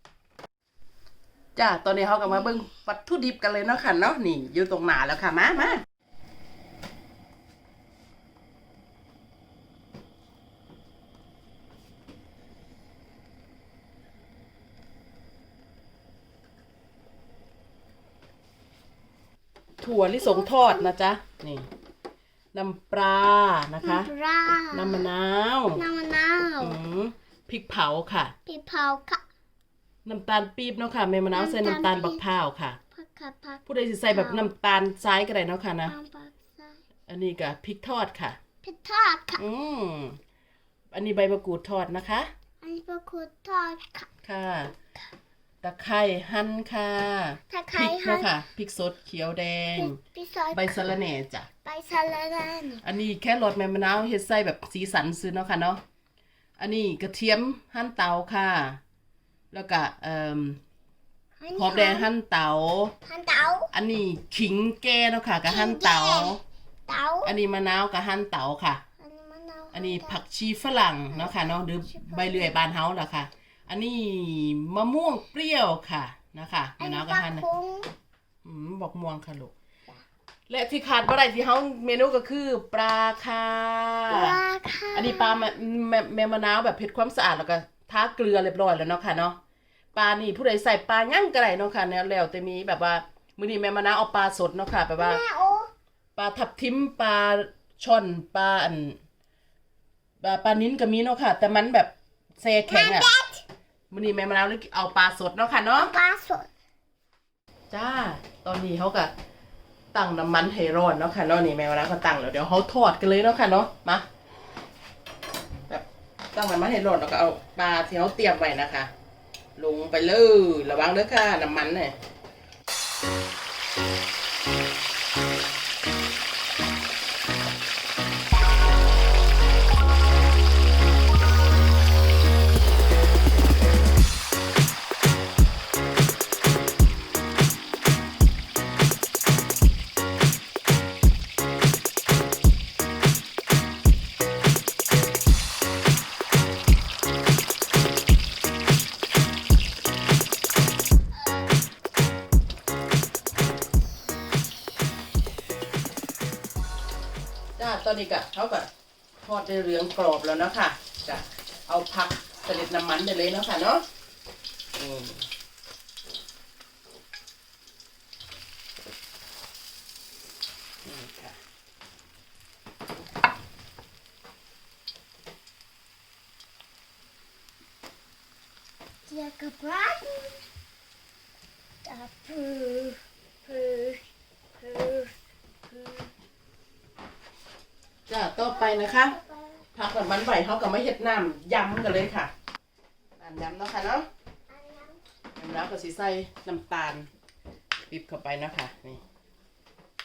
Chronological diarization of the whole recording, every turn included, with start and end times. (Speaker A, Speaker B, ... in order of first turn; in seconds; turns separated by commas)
Speaker A: 1.5-5.8, Speaker A: 19.8-21.7, Speaker B: 20.2-20.9, Speaker A: 22.5-24.1, Speaker B: 23.8-25.1, Speaker A: 24.7-25.8, Speaker B: 25.8-26.8, Speaker A: 26.6-28.3, Speaker B: 28.4-29.2, Speaker A: 30.0-32.8, Speaker B: 31.3-32.2, Speaker B: 32.9-34.5, Speaker A: 33.7-35.9, Speaker B: 35.9-36.8, Speaker A: 37.1-38.4, Speaker B: 38.6-39.4, Speaker A: 39.4-40.2, Speaker A: 40.9-42.3, Speaker B: 42.6-44.1, Speaker A: 44.2-44.7, Speaker A: 45.6-50.0, Speaker B: 47.5-48.3, Speaker B: 49.7-50.9, Speaker A: 50.5-51.5, Speaker B: 51.6-52.8, Speaker A: 52.8-55.8, Speaker A: 56.6-58.8, Speaker A: 59.5-60.6, Speaker B: 61.4-62.1, Speaker A: 61.5-62.9, Speaker B: 63.1-63.7, Speaker A: 63.7-66.4, Speaker B: 65.5-66.3, Speaker B: 66.9-67.3, Speaker A: 67.2-68.8, Speaker B: 69.0-70.2, Speaker A: 69.7-77.4, Speaker B: 71.1-72.6, Speaker B: 76.8-77.9, Speaker A: 78.4-79.5, Speaker A: 80.5-84.4, Speaker B: 84.1-85.5, Speaker A: 84.9-89.4, Speaker A: 89.9-95.2, Speaker B: 95.0-95.7, Speaker A: 96.2-99.0, Speaker A: 100.2-103.1, Speaker B: 102.6-103.4, Speaker A: 103.9-105.9, Speaker B: 105.8-106.5, Speaker A: 107.7-109.1, Speaker A: 109.9-114.0, Speaker A: 115.7-118.9, Speaker A: 119.5-122.0, Speaker A: 157.6-158.7, Speaker A: 159.2-163.8, Speaker A: 164.8-165.2, Speaker A: 170.8-171.4, Speaker B: 179.1-180.4, Speaker B: 181.8-184.0, Speaker B: 184.6-185.1, Speaker B: 185.7-186.1, Speaker A: 188.1-189.2, Speaker B: 188.3-189.6, Speaker A: 189.7-192.3, Speaker A: 193.2-194.1, Speaker B: 194.5-195.0, Speaker A: 195.3-197.1, Speaker A: 197.9-199.0